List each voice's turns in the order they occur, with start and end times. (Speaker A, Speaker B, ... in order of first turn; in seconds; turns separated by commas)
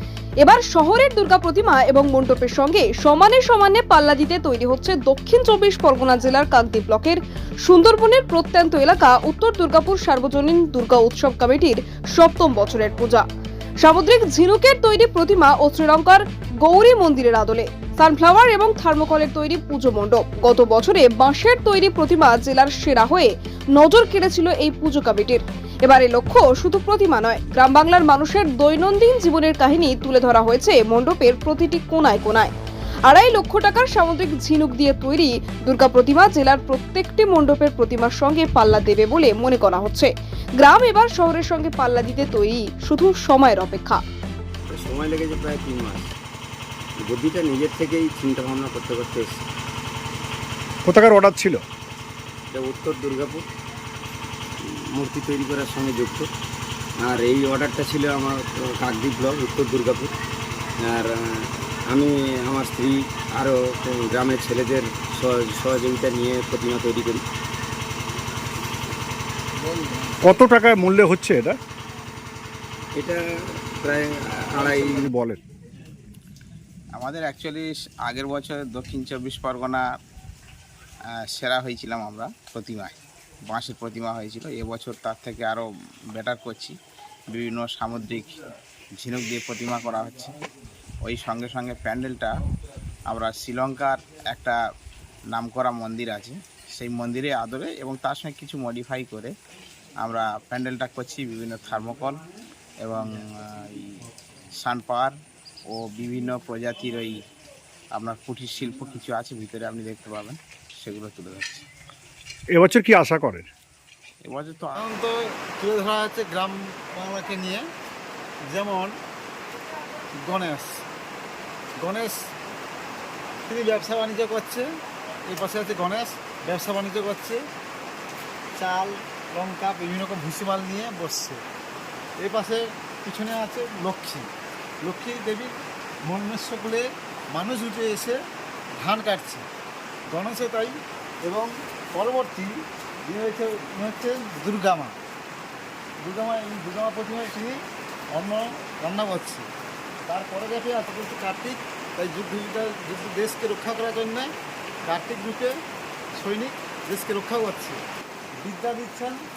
Speaker A: 0.4-13.2, Speaker A: 13.8-32.5, Speaker A: 33.0-44.0, Speaker B: 44.7-46.1, Speaker B: 47.0-49.4, Speaker C: 50.8-51.6, Speaker B: 52.5-53.4, Speaker B: 54.6-56.3, Speaker B: 57.0-60.1, Speaker B: 60.9-67.2, Speaker D: 69.6-70.2, Speaker C: 70.2-71.6, Speaker B: 73.0-73.2, Speaker B: 73.8-75.1, Speaker C: 74.6-75.4, Speaker E: 76.9-79.8, Speaker E: 81.3-83.0, Speaker E: 83.5-86.7, Speaker E: 87.3-88.4, Speaker E: 89.0-90.3, Speaker E: 91.0-92.4, Speaker E: 93.1-94.6, Speaker E: 95.3-99.3, Speaker E: 100.0-102.2, Speaker E: 102.8-104.0, Speaker E: 104.6-105.1, Speaker E: 105.7-107.2, Speaker E: 108.0-111.6, Speaker C: 112.5-113.5, Speaker E: 114.2-114.8, Speaker D: 114.8-117.7, Speaker D: 118.5-118.9, Speaker D: 120.2-120.8, Speaker D: 121.8-122.2, Speaker D: 123.5-124.7, Speaker D: 125.3-127.4, Speaker D: 128.6-131.4, Speaker D: 132.2-134.3, Speaker D: 134.8-135.5, Speaker D: 136.1-138.2, Speaker D: 138.8-139.4, Speaker D: 140.1-145.0, Speaker D: 146.0-147.6, Speaker D: 148.1-149.5, Speaker D: 150.1-154.3, Speaker D: 154.8-155.5, Speaker D: 156.2-157.8, Speaker D: 158.4-159.2